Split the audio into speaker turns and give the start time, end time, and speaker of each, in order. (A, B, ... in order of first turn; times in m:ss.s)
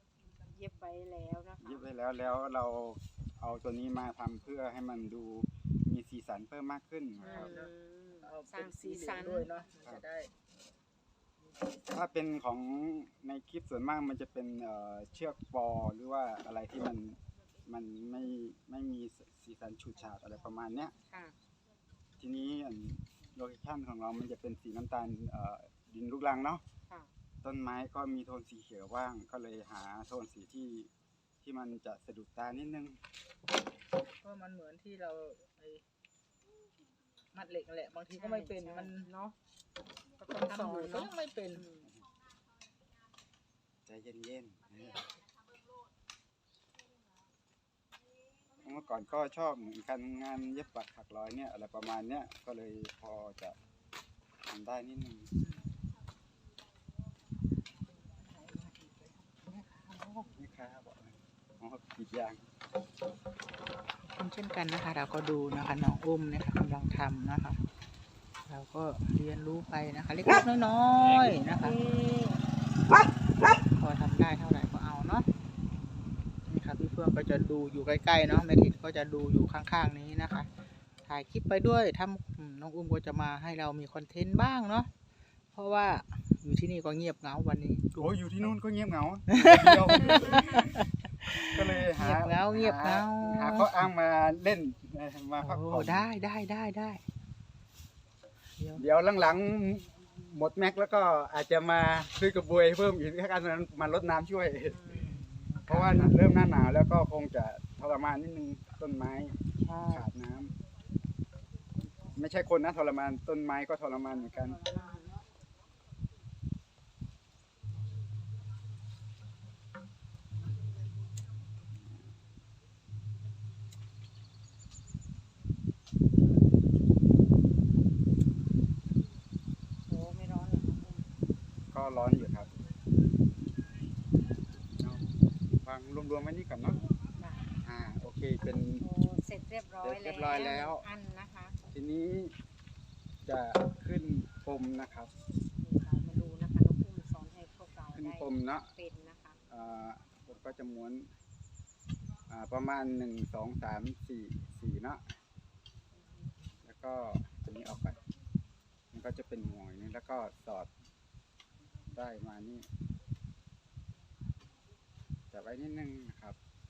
0:00.4-0:01.9 A
0:01.6-0:07.6 B
0:07.2-0:09.5 A
0:07.3-0:07.7 C
0:08.2-0:10.3 C
0:11.9-0:20.9 B
0:21.1-0:21.4 A
0:22.2-0:26.6 B
0:27.4-0:30.9 B
0:31.4-0:33.0 B
0:34.2-0:35.8 C
0:37.3-0:39.1 C
0:38.2-0:39.4 A
0:40.2-0:41.9 A
0:40.3-0:41.6 C
0:43.9-0:45.2 B
0:48.6-0:53.6 B
0:54.5-0:55.3 B
0:55.4-0:55.7 C
0:58.2-1:00.3 C
1:00.4-1:02.4 B
1:04.0-1:07.6 C
1:08.5-1:11.8 C
1:11.6-1:12.4 A
1:13.6-1:15.3 C
1:16.5-1:20.5 C
1:21.0-1:24.9 C
1:25.5-1:28.5 C
1:28.0-1:30.8 B
1:29.3-1:33.9 C
1:31.4-1:36.1 B
1:35.4-1:37.0 C
1:38.6-1:38.8 C
1:38.8-1:44.8 B
1:44.7-1:45.2 A
1:45.0-1:46.2 C
1:45.7-1:50.5 B
1:49.6-1:50.1 C
1:52.2-1:54.6 B
1:54.6-1:55.2 A
2:09.9-2:11.1 A
2:11.7-2:12.5 B
2:14.8-2:16.8 B
2:17.2-2:17.5 A
2:17.6-2:18.8 B
2:18.8-2:21.6 A
2:19.8-2:20.9 B
2:21.7-2:22.3 B
2:23.3-2:25.1 B
2:25.6-2:29.4 A
2:27.9-2:28.7 B
2:29.5-2:31.1 B
2:32.3-2:35.0 B
2:36.0-2:36.3 A
2:36.6-2:38.0 B
2:38.9-2:40.7 B
2:42.0-2:42.7 B
2:45.3-2:46.4 B